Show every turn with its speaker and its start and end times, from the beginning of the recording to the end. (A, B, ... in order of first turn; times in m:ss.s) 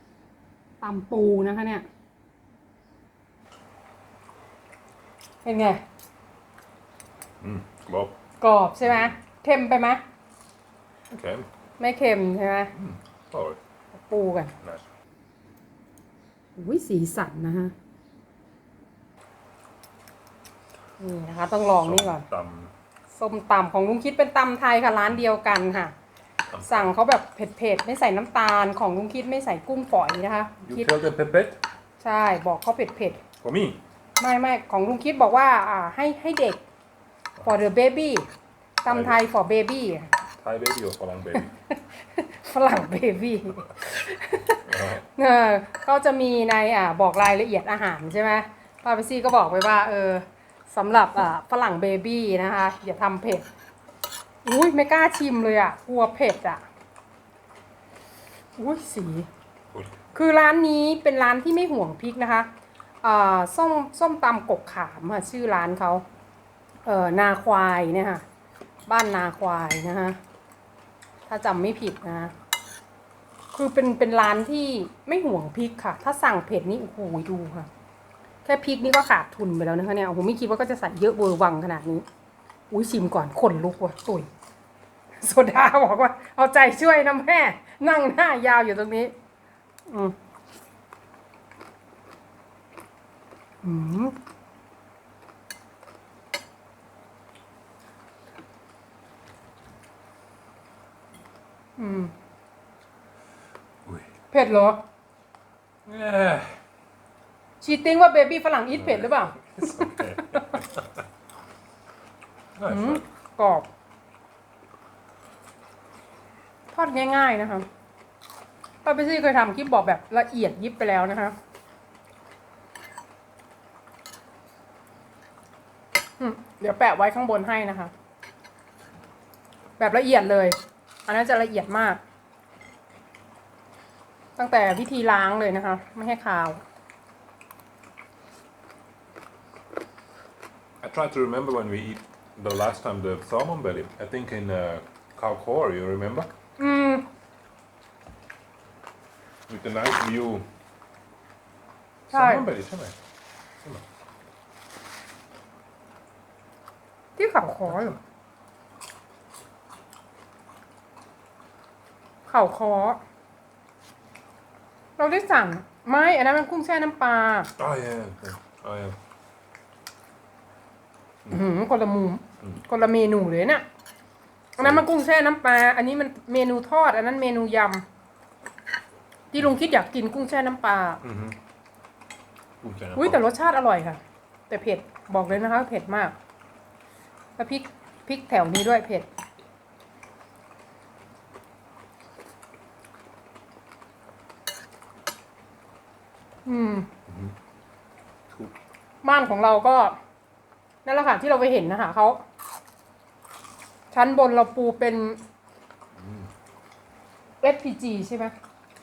0:00.8-0:01.8 A
0:05.4-0:05.8 A
0:07.4-0:08.2 B
0:08.4-0:10.0 A
0:08.8-0:09.2 B
0:11.1-0:11.4 B
0:11.8-0:12.7 A
0:12.7-0:13.6 B
0:13.9-0:14.5 A
0:16.6-0:17.7 A
0:21.0-0:22.3 A
0:21.8-0:22.7 B
0:23.1-0:25.9 A
0:26.5-0:26.9 B
0:26.6-0:30.9 A
0:30.6-0:31.6 B
0:32.0-0:33.2 A
0:33.4-0:33.8 B
0:34.2-0:36.6 A
0:37.4-0:38.3 A
0:38.8-0:40.1 A
0:38.9-0:39.2 B
0:40.4-0:41.5 B
0:41.3-0:53.4 A
0:44.6-0:45.0 B
0:54.4-0:56.6 A
0:58.6-0:59.3 A
1:00.1-1:02.5 A
1:03.0-1:06.0 A
1:06.8-1:08.2 A
1:08.9-1:10.2 A
1:11.3-1:12.3 A
1:13.5-1:17.7 A
1:18.4-1:22.0 A
1:22.7-1:24.3 A
1:25.2-1:29.1 A
1:29.9-1:30.1 A
1:33.6-1:34.2 A
1:41.8-1:42.1 A
1:44.3-1:44.8 A
1:45.8-1:46.6 B
1:47.6-1:50.5 A
1:48.7-1:51.0 B
1:52.6-1:53.0 B
1:52.7-1:53.7 A
1:56.7-1:57.7 A
1:58.8-2:01.4 A
2:06.2-2:07.9 A
2:09.8-2:12.0 A
2:14.4-2:16.6 A
2:20.8-2:26.3 B
2:26.6-2:27.0 A
2:29.5-2:30.4 B
2:32.1-2:33.0 B
2:32.1-2:32.4 A
2:37.2-2:38.0 A
2:42.2-2:43.0 A
2:45.0-2:47.5 A
2:47.6-2:49.0 B
2:51.3-2:53.6 A
2:54.6-2:57.8 A
2:54.6-2:54.8 B
2:59.3-3:01.0 A
3:01.0-3:01.4 B
3:02.6-3:03.2 B
3:03.0-3:06.1 A
3:07.4-3:09.1 A
3:16.4-3:16.9 A
3:17.1-3:17.3 B
3:18.3-3:18.5 B
3:19.0-3:20.0 A
3:20.8-3:22.2 A
3:23.9-3:25.2 A
3:26.0-3:26.3 B
3:27.4-3:28.3 A